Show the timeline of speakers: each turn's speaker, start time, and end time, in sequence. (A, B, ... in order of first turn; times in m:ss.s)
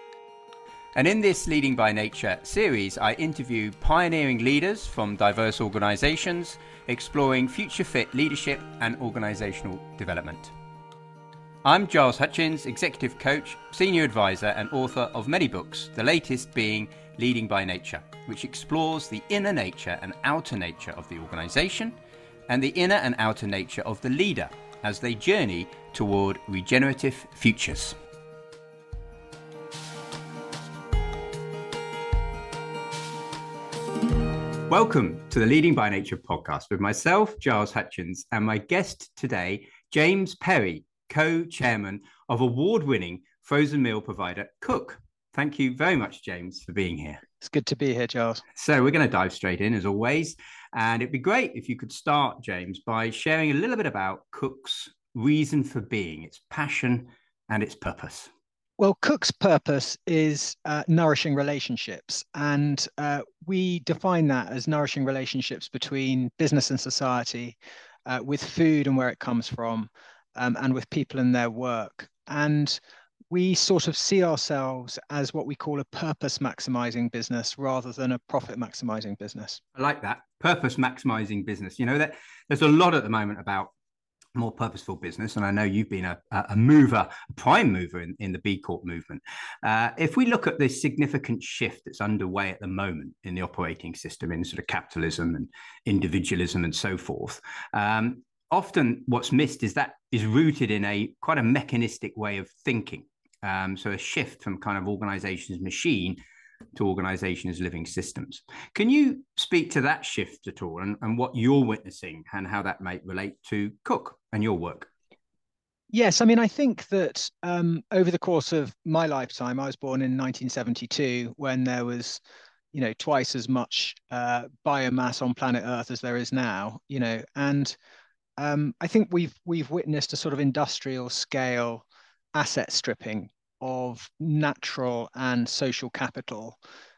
0:00.9-0:10.5 A
0:11.6-0:21.9 A
0:22.5-0:28.0 A
0:34.7-0:47.2 A
0:47.4-0:48.4 B
0:48.5-0:58.3 A
0:58.8-1:12.8 B
1:13.3-1:19.6 B
1:19.8-1:23.7 A
1:24.3-1:46.2 A
1:46.7-1:54.9 A
1:55.9-2:02.2 B
2:02.7-2:07.8 B
2:08.4-2:16.6 B